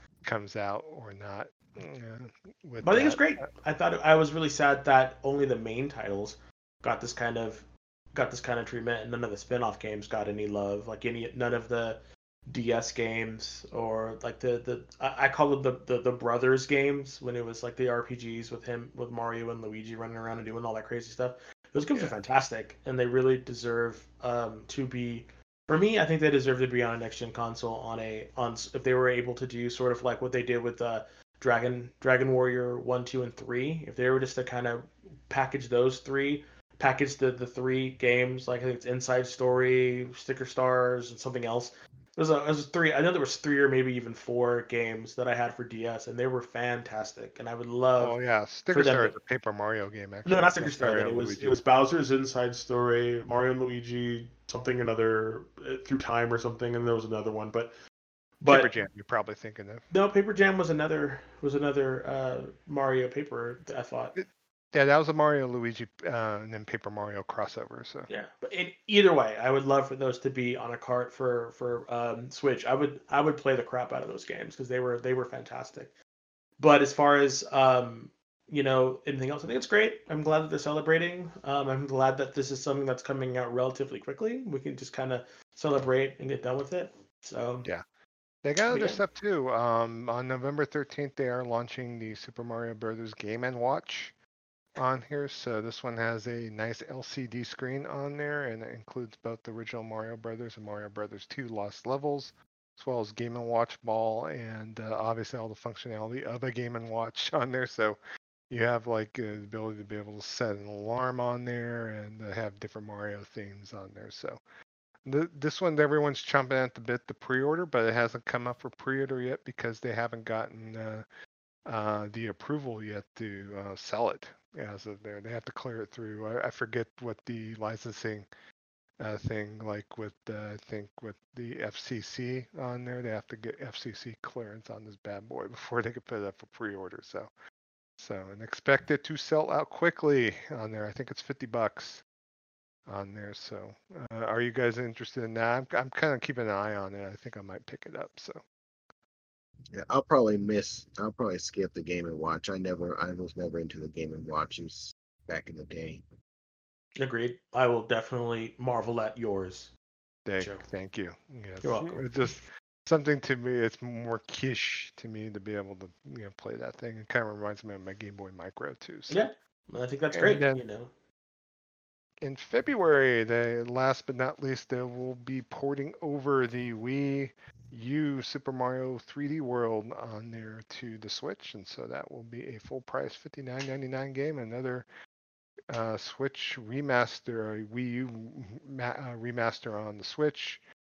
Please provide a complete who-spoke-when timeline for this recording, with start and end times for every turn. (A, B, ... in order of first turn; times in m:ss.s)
0:00.2-0:03.3 A
0:02.8-0:48.2 B
0:48.0-0:51.6 A
0:48.7-0:49.2 B
0:50.3-0:57.7 B
0:58.4-0:58.7 B
0:58.4-0:59.9 A
0:59.9-1:04.2 B
1:04.2-1:08.1 A
1:08.1-1:15.9 B
1:16.6-1:27.7 B
1:28.4-1:34.2 A
1:28.7-1:29.0 B
1:34.8-1:48.0 A
1:48.5-1:54.4 A
1:55.1-2:01.1 A
2:01.7-2:08.3 A
2:09.0-2:17.3 A
2:18.0-2:22.0 A
2:22.9-2:28.4 A
2:29.7-2:36.0 C
2:37.0-2:39.7 B
2:40.3-2:49.2 A
2:40.4-2:40.7 B
2:41.6-2:42.4 B
2:49.1-2:50.9 B
2:50.1-2:50.6 A
2:52.2-3:04.9 A
3:05.7-3:10.6 A